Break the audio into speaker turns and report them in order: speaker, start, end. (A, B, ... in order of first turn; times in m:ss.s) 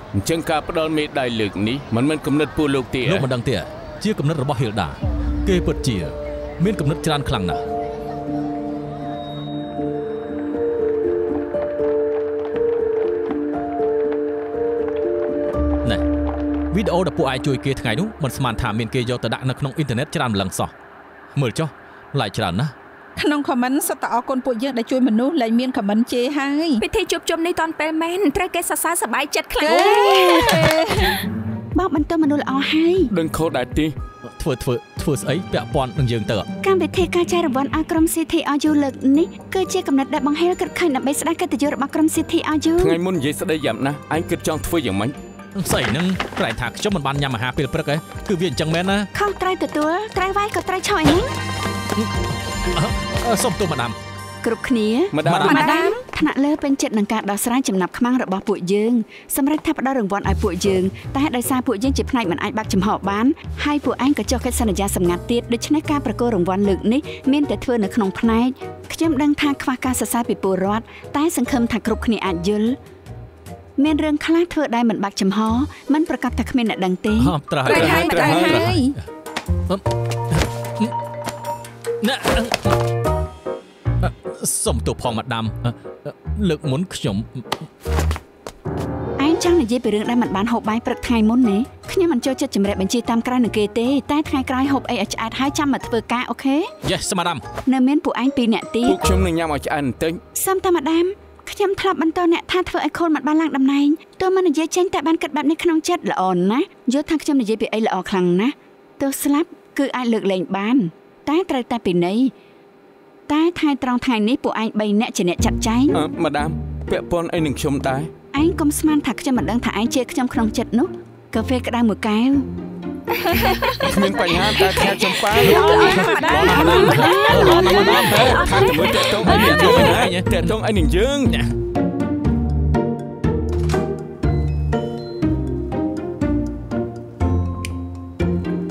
0:00.1-0:03.2 A
0:03.0-0:07.6 B
0:16.7-0:20.7 B
0:21.3-0:22.7 B
0:23.2-0:26.8 C
0:26.8-0:30.5 D
0:29.6-0:31.2 C
0:31.7-0:33.1 E
0:33.1-0:33.9 A
0:34.2-0:36.5 B
0:36.6-0:43.0 E
0:42.8-0:45.1 A
0:45.6-0:49.1 B
0:49.1-0:51.3 E
0:52.7-0:54.0 B
0:54.4-1:12.8 E
0:55.1-0:55.6 A
0:55.2-0:55.7 B
0:55.4-0:56.0 C
1:13.8-1:17.3 E
1:17.2-1:19.0 B
1:17.6-1:18.9 C
1:17.7-1:18.6 A
1:19.7-1:20.9 B
1:22.0-1:22.8 B
1:24.0-1:27.7 B
1:29.2-1:36.7 E
1:36.8-1:37.4 B
1:37.7-1:39.0 E
1:38.8-1:40.2 A
1:40.3-1:52.3 E
1:53.3-1:56.0 E
1:55.9-1:58.1 A
1:58.3-2:02.5 E
2:03.3-2:03.8 C
2:03.3-2:09.9 D
2:03.8-2:11.4 A
2:04.5-2:08.0 C
2:05.5-2:10.6 B
2:06.9-2:07.6 E
2:09.3-2:09.8 C